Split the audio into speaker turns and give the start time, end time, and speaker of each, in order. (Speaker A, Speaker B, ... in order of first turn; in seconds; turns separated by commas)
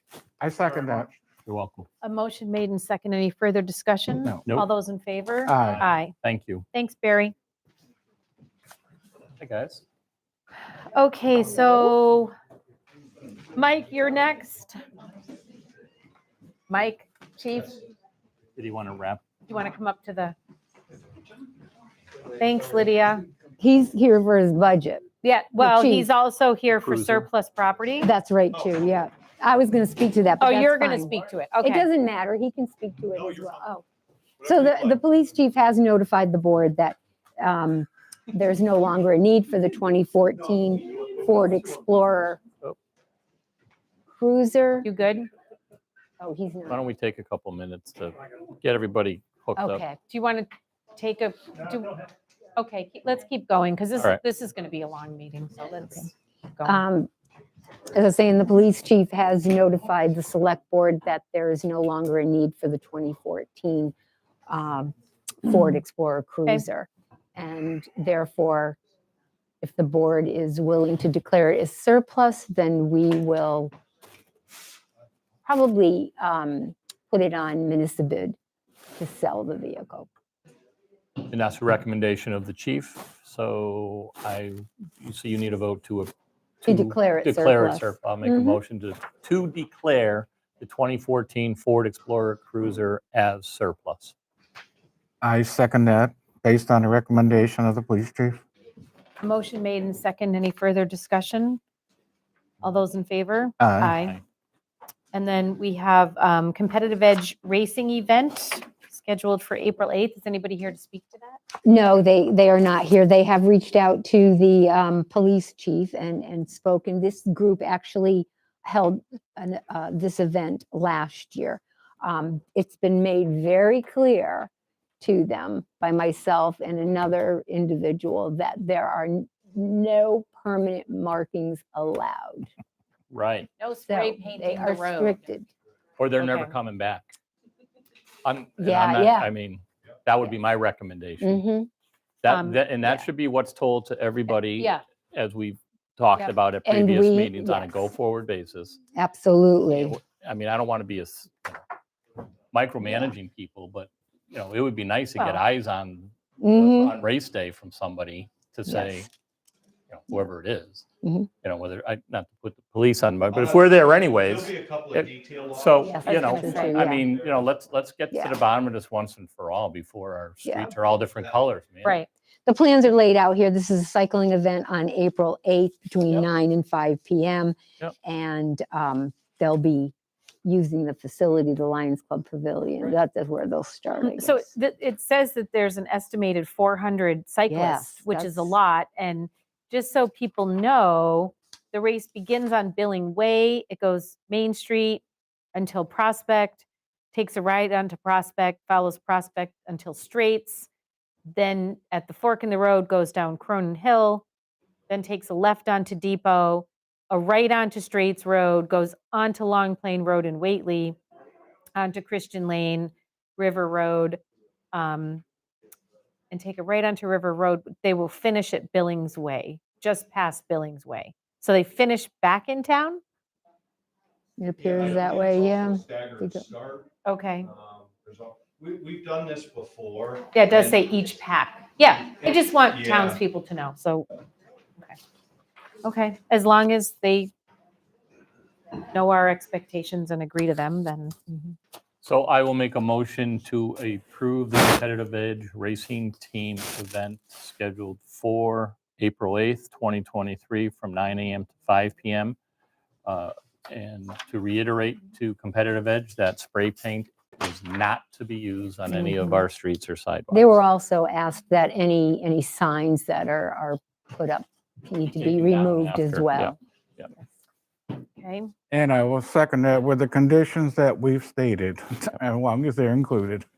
Speaker A: 0.4-1.1, Speaker B: 1.5-1.9, Speaker C: 2.0-6.1, Speaker A: 5.5-5.9, Speaker B: 5.6-6.7, Speaker C: 6.7-7.3, Speaker B: 9.4-9.8, Speaker C: 10.9-12.3, Speaker C: 13.6-14.8, Speaker C: 16.7-17.8, Speaker B: 18.6-19.2, Speaker C: 19.5-20.4, Speaker C: 22.4-23.3, Speaker D: 23.6-25.1, Speaker C: 25.2-28.1, Speaker D: 25.6-26.1, Speaker B: 26.8-27.3, Speaker D: 28.0-33.8, Speaker C: 30.4-31.9, Speaker E: 33.2-33.6, Speaker E: 34.4-35.0, Speaker D: 34.4-42.4, Speaker D: 44.1-44.9, Speaker C: 44.8-45.3, Speaker D: 46.2-46.8, Speaker B: 46.7-49.8, Speaker D: 49.6-49.9, Speaker C: 49.9-56.8, Speaker D: 56.6-57.1, Speaker D: 57.9-63.9, Speaker D: 64.5-68.8, Speaker D: 69.6-73.7, Speaker D: 75.5-78.4, Speaker D: 79.0-80.1, Speaker B: 81.3-86.1, Speaker B: 86.6-94.1, Speaker D: 86.7-88.6, Speaker A: 95.2-98.4, Speaker C: 99.2-101.6, Speaker C: 102.6-104.2, Speaker A: 103.6-104.0, Speaker C: 105.1-111.4, Speaker D: 111.7-132.5, Speaker B: 133.1-133.5, Speaker C: 133.6-135.3, Speaker D: 133.9-135.5, Speaker B: 136.0-137.1, Speaker C: 136.2-136.5, Speaker B: 138.2-141.4, Speaker D: 138.6-139.3, Speaker D: 141.2-141.7, Speaker B: 142.2-148.8, Speaker C: 142.3-143.1, Speaker C: 144.4-144.8, Speaker D: 146.7-147.9, Speaker D: 148.9-150.0, Speaker B: 149.7-151.6, Speaker B: 152.5-159.1, Speaker D: 152.8-153.1, Speaker C: 155.2-155.4, Speaker D: 156.4-157.0, Speaker D: 158.7-159.1, Speaker B: 159.9-160.8, Speaker D: 161.0-161.3, Speaker B: 161.4-172.0, Speaker E: 163.3-167.4, Speaker D: 165.9-167.1, Speaker C: 166.0-166.9, Speaker D: 168.1-168.4, Speaker D: 170.5-170.7, Speaker D: 172.5-184.5, Speaker C: 184.0-200.7, Speaker D: 187.5-188.6, Speaker C: 201.3-204.3, Speaker C: 204.9-211.0, Speaker C: 211.8-214.2, Speaker C: 214.7-215.2, Speaker C: 216.3-223.0, Speaker D: 224.4-226.4, Speaker E: 224.6-226.9, Speaker C: 227.1-227.5, Speaker E: 227.4-230.8, Speaker C: 230.3-234.1, Speaker E: 232.2-233.2, Speaker C: 235.8-237.3, Speaker C: 238.9-241.5, Speaker B: 242.0-252.4, Speaker B: 253.1-260.6, Speaker D: 258.9-259.4, Speaker D: 260.3-266.6, Speaker B: 265.2-267.1, Speaker C: 268.0-268.5, Speaker A: 268.7-273.5